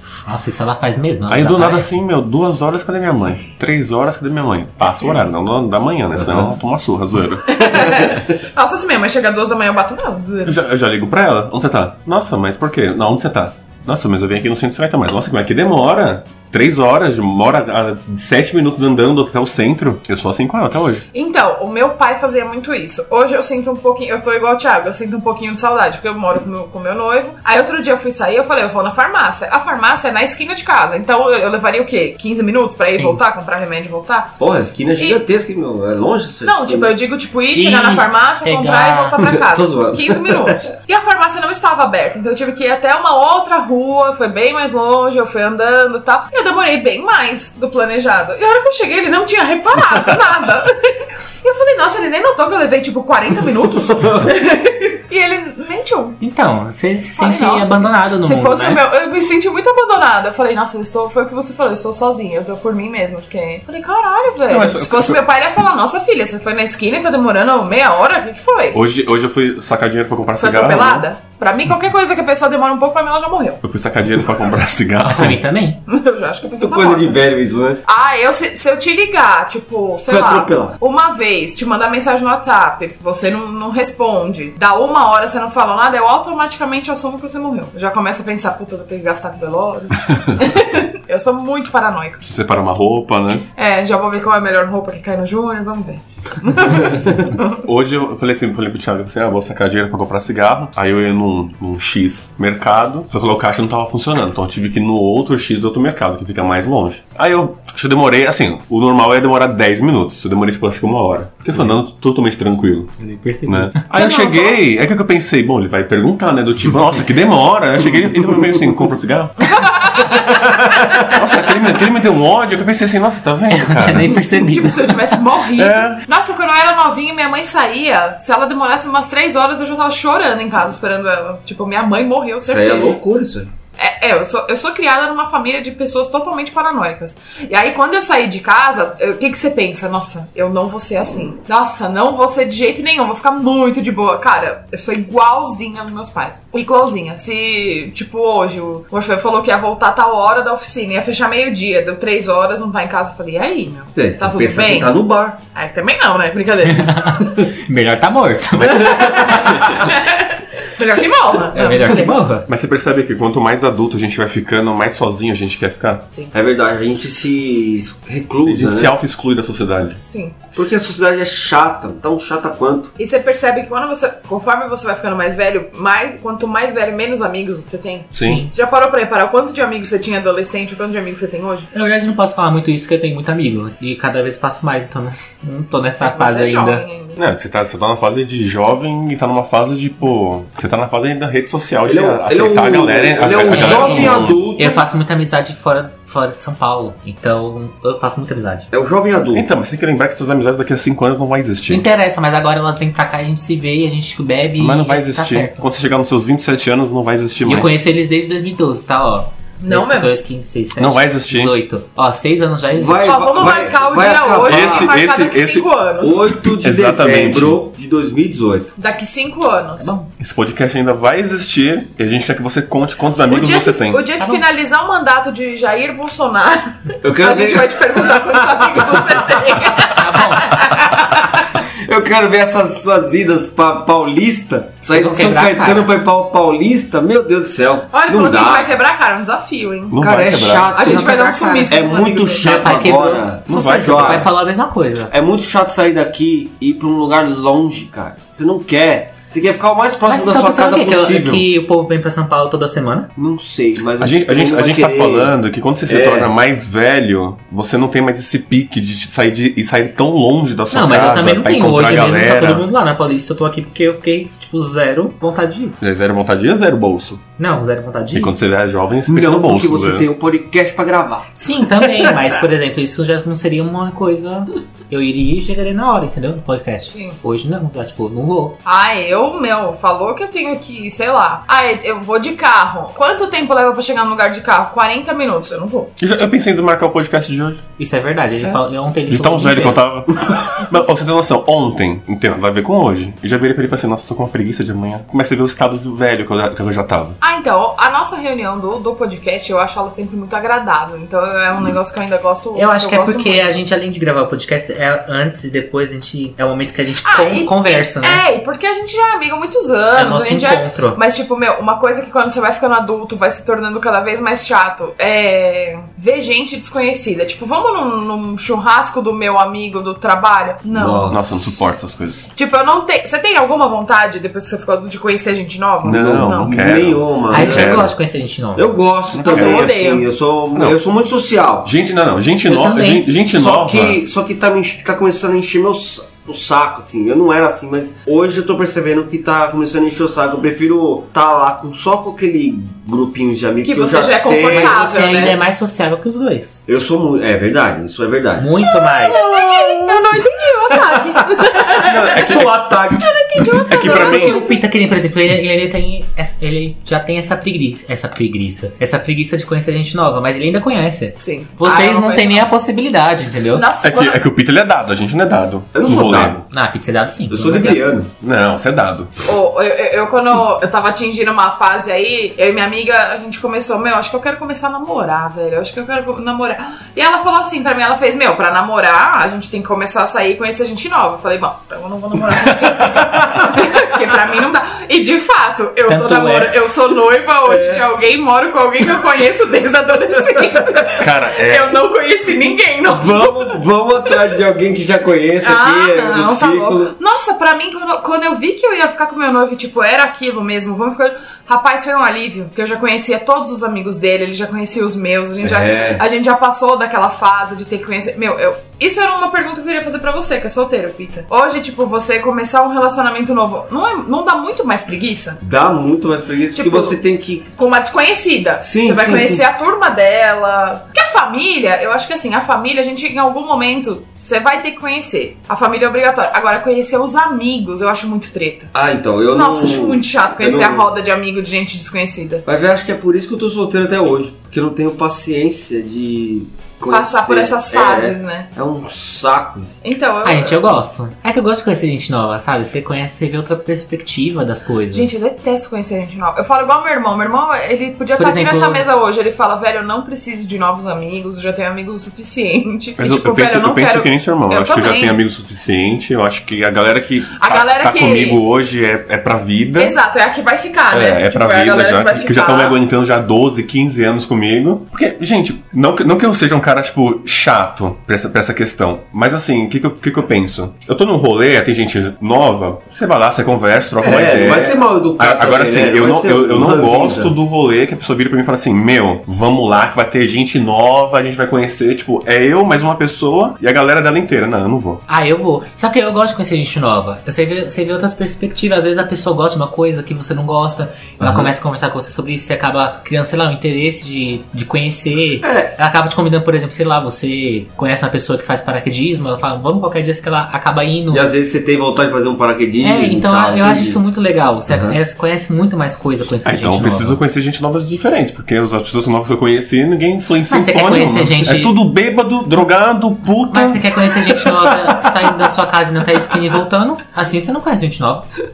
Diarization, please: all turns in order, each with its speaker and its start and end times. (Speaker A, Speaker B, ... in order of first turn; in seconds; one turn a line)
Speaker A: 0.2-2.0
Speaker B: 1.3-7.8
Speaker C: 7.5-10.6
Speaker B: 10.4-21.0
Speaker C: 21.1-34.4
Speaker A: 32.9-33.2
Speaker D: 34.4-36.9
Speaker C: 36.4-56.2
Speaker A: 37.5-39.2
Speaker D: 39.2-40.6
Speaker D: 53.9-54.3
Speaker A: 56.2-58.8
Speaker C: 57.1-68.8
Speaker B: 64.5-65.2
Speaker B: 68.7-71.1
Speaker C: 70.4-73.6
Speaker B: 73.6-75.4
Speaker A: 75.0-75.8
Speaker C: 75.9-77.2
Speaker D: 76.6-77.8
Speaker C: 77.8-92.3
Speaker D: 80.1-80.7
Speaker B: 92.2-93.4
Speaker C: 93.5-97.6
Speaker B: 97.5-119.5
Speaker A: 113.0-113.8
Speaker C: 113.9-114.6
Speaker C: 119.4-121.1
Speaker B: 121.0-124.2
Speaker A: 123.5-125.0
Speaker C: 124.2-132.9
Speaker B: 125.5-126.0
Speaker D: 132.4-133.5
Speaker C: 133.8-155.0
Speaker D: 153.9-155.4
Speaker C: 155.5-157.4
Speaker A: 156.7-159.8
Speaker C: 158.7-162.1
Speaker D: 158.8-159.5
Speaker A: 161.5-162.5
Speaker B: 162.5-166.0
Speaker D: 166.3-168.9
Speaker B: 168.4-170.0
Speaker C: 170.0-170.3
Speaker D: 170.5-172.9
Speaker C: 173.0-181.7
Speaker B: 178.1-178.4
Speaker A: 178.2-178.5
Speaker A: 181.7-186.8
Speaker C: 186.0-187.2
Speaker B: 187.2-194.4
Speaker D: 191.9-194.8
Speaker A: 193.5-198.7
Speaker D: 198.7-199.4
Speaker B: 199.3-201.8
Speaker A: 201.7-205.7
Speaker B: 204.6-207.8
Speaker A: 207.4-213.2
Speaker C: 209.6-210.1
Speaker B: 210.8-211.5
Speaker D: 212.7-214.9
Speaker C: 213.0-216.2
Speaker B: 214.4-215.7
Speaker D: 216.0-218.7
Speaker B: 216.4-217.6
Speaker C: 218.8-220.0
Speaker A: 219.8-220.1
Speaker B: 220.2-224.0
Speaker C: 223.3-231.4
Speaker D: 227.0-229.4
Speaker A: 229.8-230.6
Speaker D: 231.0-238.7
Speaker A: 234.9-235.9
Speaker C: 237.9-240.0
Speaker B: 239.9-240.7
Speaker D: 240.0-244.3
Speaker C: 240.7-242.5
Speaker A: 240.8-241.8
Speaker A: 242.4-245.1
Speaker B: 243.5-244.3
Speaker D: 245.1-251.4
Speaker A: 250.1-253.1
Speaker D: 253.2-255.3
Speaker B: 254.0-262.6
Speaker D: 255.9-256.3
Speaker A: 260.7-265.8
Speaker B: 265.8-267.2
Speaker A: 267.4-268.3
Speaker B: 268.1-270.1
Speaker D: 269.1-272.1
Speaker A: 271.4-278.6
Speaker C: 276.9-277.2
Speaker C: 278.6-285.9
Speaker B: 286.0-287.6
Speaker A: 287.8-289.9
Speaker B: 289.1-297.2
Speaker C: 297.2-303.6
Speaker A: 302.6-308.2
Speaker C: 307.0-321.2
Speaker A: 309.9-311.0
Speaker D: 320.7-321.2
Speaker B: 321.1-322.3
Speaker C: 322.3-326.6
Speaker B: 325.8-327.9
Speaker D: 325.8-327.9
Speaker A: 327.3-328.7
Speaker D: 328.6-331.7
Speaker B: 329.1-329.6
Speaker C: 329.1-330.1
Speaker B: 330.5-330.8
Speaker B: 331.6-334.0
Speaker A: 332.5-333.1
Speaker D: 333.3-344.8
Speaker C: 343.6-345.4
Speaker A: 344.5-346.6
Speaker D: 346.7-348.5
Speaker A: 348.4-349.3
Speaker C: 349.0-354.6
Speaker D: 349.1-350.2
Speaker D: 350.7-353.1
Speaker B: 351.9-353.0
Speaker B: 353.5-354.4
Speaker A: 353.8-363.7
Speaker C: 361.2-362.5
Speaker C: 363.5-364.2
Speaker B: 363.8-366.4
Speaker D: 365.7-366.4
Speaker A: 366.5-367.9
Speaker D: 367.3-368.1
Speaker B: 368.2-369.1
Speaker C: 369.2-394.2
Speaker A: 385.9-386.5
Speaker D: 387.4-387.8
Speaker B: 391.0-391.8
Speaker D: 392.9-396.9
Speaker C: 395.4-415.4
Speaker D: 405.4-406.0
Speaker D: 415.4-417.5
Speaker C: 416.5-417.0
Speaker C: 417.6-428.7
Speaker D: 418.6-419.4
Speaker D: 428.7-430.9
Speaker C: 429.3-432.4
Speaker D: 432.4-439.8
Speaker C: 436.9-438.5
Speaker C: 439.8-440.7
Speaker A: 440.2-445.2
Speaker C: 444.9-455.2
Speaker A: 448.2-448.8
Speaker B: 453.0-459.9
Speaker C: 457.4-458.4
Speaker C: 459.8-462.8
Speaker B: 460.9-485.0
Speaker D: 474.0-477.3
Speaker A: 485.1-501.3
Speaker D: 491.2-491.5
Speaker D: 495.4-495.7
Speaker D: 501.1-504.0
Speaker A: 502.8-507.2
Speaker D: 504.7-505.0
Speaker B: 506.4-514.0
Speaker A: 510.5-511.7
Speaker A: 513.5-518.3